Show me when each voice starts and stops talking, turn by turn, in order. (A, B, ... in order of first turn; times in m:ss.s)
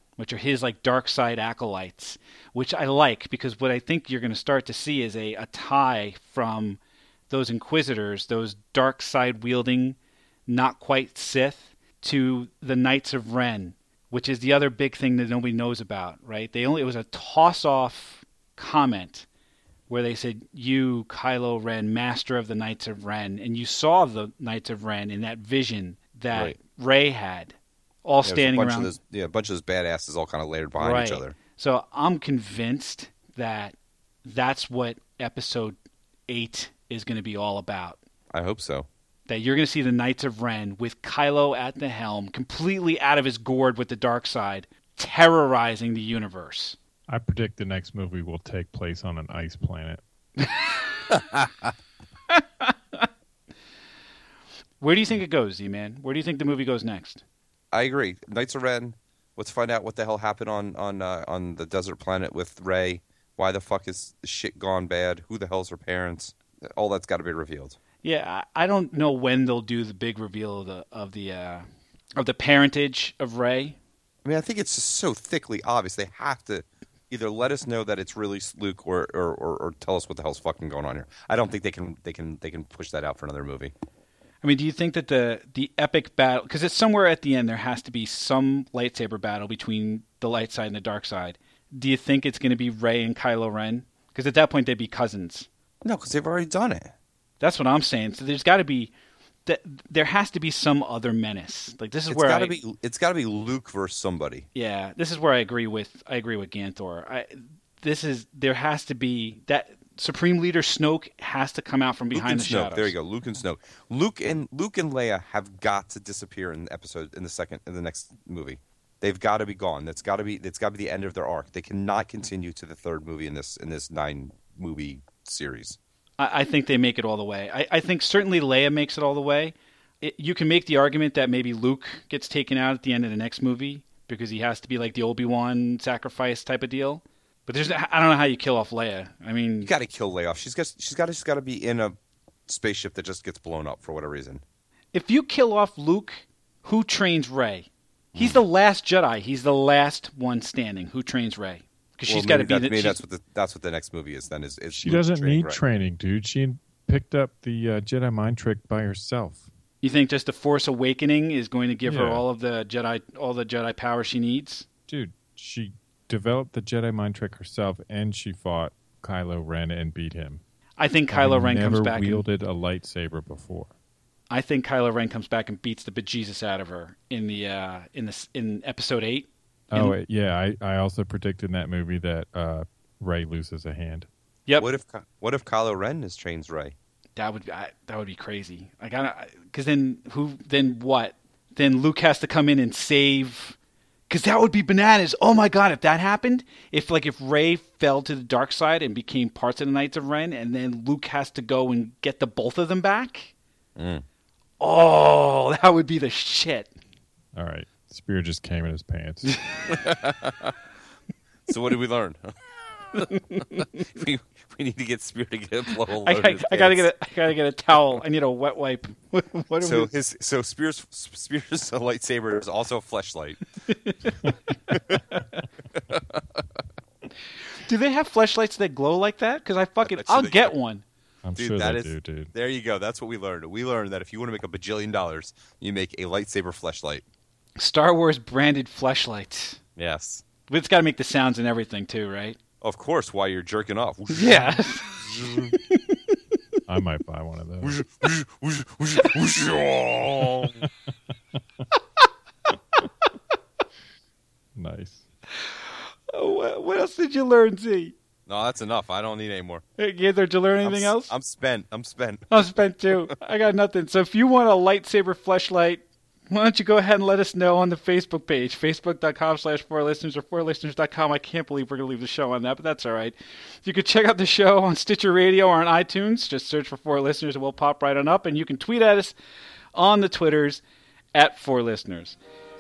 0:00.2-0:19.3 A
0:19.9-0:28.9 A
0:26.3-0:26.6 B
0:28.2-0:31.4 B
0:30.8-0:35.8 A
0:36.3-0:38.0 A
0:38.3-0:38.9 B
0:39.3-0:46.8 A
0:47.1-0:50.0 C
0:52.3-0:53.1 A
0:54.8-0:57.2 A
0:57.7-1:07.8 B
1:08.0-1:13.8 A
1:14.2-1:23.7 B
1:24.4-1:35.5 A
1:35.8-1:36.9 B
1:37.4-1:38.9 A
1:39.5-1:42.6 A
1:42.1-1:44.5 B
1:44.6-1:53.0 A
1:52.1-2:05.8 B
2:06.2-2:19.7 A
2:19.6-2:22.0 B
2:22.5-2:24.4 B
2:24.9-2:33.0 A
2:28.1-2:28.4 B
2:32.1-2:35.6 B
2:34.7-2:39.5 C
2:39.8-2:44.7 A
2:41.8-2:42.2 C
2:44.9-2:50.4 C
2:50.8-2:52.2 A
2:51.1-2:53.7 C
2:54.3-3:00.0 A
2:59.7-3:04.1 C
3:04.6-3:06.8 B
3:07.2-3:13.6 A
3:14.1-3:23.3 A
3:23.8-3:24.0 B
3:24.6-3:26.7 A
3:27.3-3:29.4 C
3:29.7-3:30.5 B
3:31.5-3:32.4 B
3:32.9-3:36.9 B
3:33.1-3:33.8 A
3:36.0-3:39.9 A
3:39.6-3:43.5 B
3:43.7-3:45.4 A
3:44.7-3:45.0 B
3:45.8-3:46.4 B
3:47.6-3:50.8 A
3:49.8-3:50.5 B
3:51.2-3:52.3 C
3:51.4-3:57.0 B
3:57.6-3:59.6 A
3:59.8-4:00.2 B
4:00.5-4:02.4 A
4:02.6-4:05.5 B
4:04.1-4:05.0 A
4:05.5-4:06.2 A
4:06.7-4:07.8 C
4:07.6-4:10.6 B
4:10.4-4:10.7 C
4:14.6-4:15.0 C
4:15.3-4:17.9 A
4:18.3-4:19.6 B
4:19.8-4:21.1 A
4:20.6-4:23.1 B
4:22.3-4:39.1 A
4:39.8-4:40.6 A
4:41.1-4:42.2 A